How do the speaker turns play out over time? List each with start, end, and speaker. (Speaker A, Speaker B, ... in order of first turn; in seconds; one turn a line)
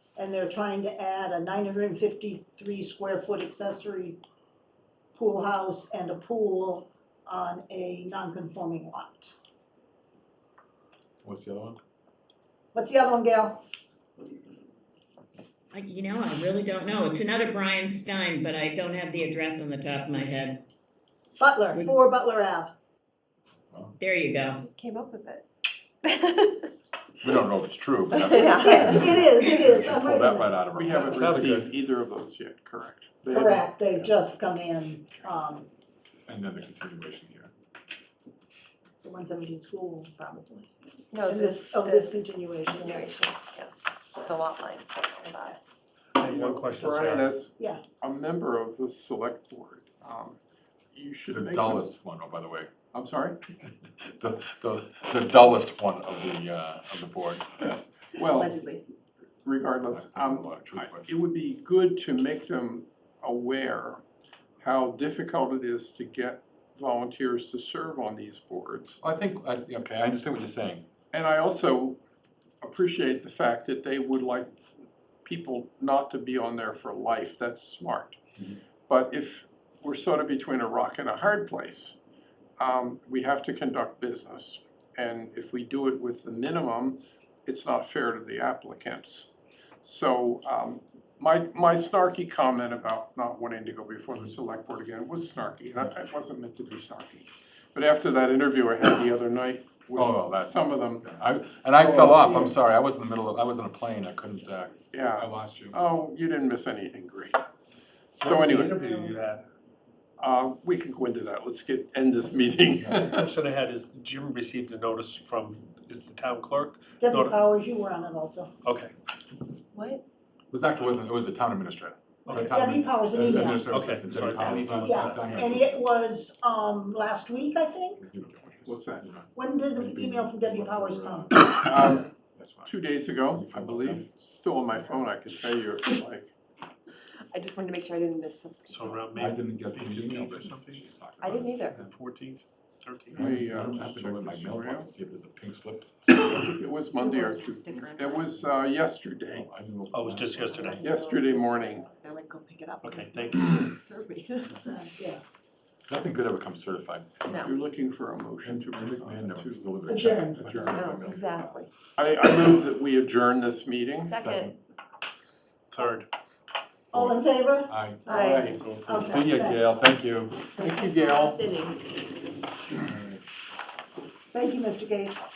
Speaker A: 0.1-4.2
Speaker A: 5.1-9.3
Speaker B: 11.2-11.8
Speaker A: 12.7-13.6
Speaker C: 15.7-20.6
Speaker A: 21.4-22.7
Speaker C: 24.0-24.6
Speaker D: 24.4-25.4
Speaker D: 26.0-26.6
Speaker B: 27.2-31.4
Speaker D: 28.1-29.1
Speaker A: 28.4-30.6
Speaker E: 30.7-34.1
Speaker F: 30.9-31.7
Speaker A: 33.3-35.7
Speaker B: 36.3-37.5
Speaker A: 39.0-40.7
Speaker D: 41.1-45.6
Speaker A: 41.2-43.1
Speaker F: 46.1-47.3
Speaker E: 46.2-50.4
Speaker E: 50.9-51.9
Speaker B: 51.3-52.7
Speaker E: 52.9-53.4
Speaker B: 53.6-57.7
Speaker E: 58.1-58.6
Speaker D: 58.2-58.8
Speaker E: 59.4-64.0
Speaker B: 59.9-61.1
Speaker E: 64.6-69.0
Speaker B: 69.0-70.8
Speaker E: 71.1-72.0
Speaker E: 72.6-74.5
Speaker E: 75.2-78.2
Speaker E: 78.9-82.0
Speaker E: 82.6-101.2
Speaker B: 99.9-105.8
Speaker E: 101.8-102.5
Speaker E: 104.9-107.5
Speaker E: 108.1-108.8
Speaker F: 108.2-109.4
Speaker A: 108.8-109.1
Speaker E: 110.2-113.3
Speaker F: 113.0-117.5
Speaker A: 117.0-118.5
Speaker F: 118.6-118.9
Speaker D: 119.7-120.0
Speaker B: 120.5-125.8
Speaker A: 122.2-123.7
Speaker F: 123.7-125.5
Speaker A: 124.8-128.0
Speaker B: 128.0-134.4
Speaker E: 128.7-129.1
Speaker A: 129.3-131.5
Speaker E: 131.6-132.1
Speaker E: 132.7-136.3
Speaker D: 137.3-139.1
Speaker F: 138.7-140.8
Speaker B: 139.1-141.9
Speaker D: 141.2-141.8
Speaker F: 141.7-143.3
Speaker E: 143.1-144.9
Speaker B: 143.1-146.5
Speaker E: 146.1-149.5
Speaker D: 146.9-148.3
Speaker B: 149.3-150.8
Speaker F: 149.9-150.8
Speaker D: 150.5-154.8
Speaker E: 150.8-151.9
Speaker F: 152.8-153.7
Speaker A: 154.7-155.2
Speaker B: 155.9-157.2
Speaker D: 157.2-157.5
Speaker E: 157.4-161.4
Speaker B: 158.4-161.6
Speaker A: 159.9-160.6
Speaker D: 160.6-161.7
Speaker E: 161.9-164.1
Speaker D: 164.0-164.5
Speaker B: 164.1-164.6
Speaker F: 165.7-166.1
Speaker A: 166.9-167.7
Speaker B: 166.9-168.0
Speaker D: 168.1-168.6
Speaker E: 168.1-168.7
Speaker F: 168.4-168.8
Speaker A: 168.8-169.8
Speaker B: 168.8-170.4
Speaker D: 170.6-172.0
Speaker E: 170.6-171.4
Speaker B: 172.8-173.2
Speaker A: 174.3-175.2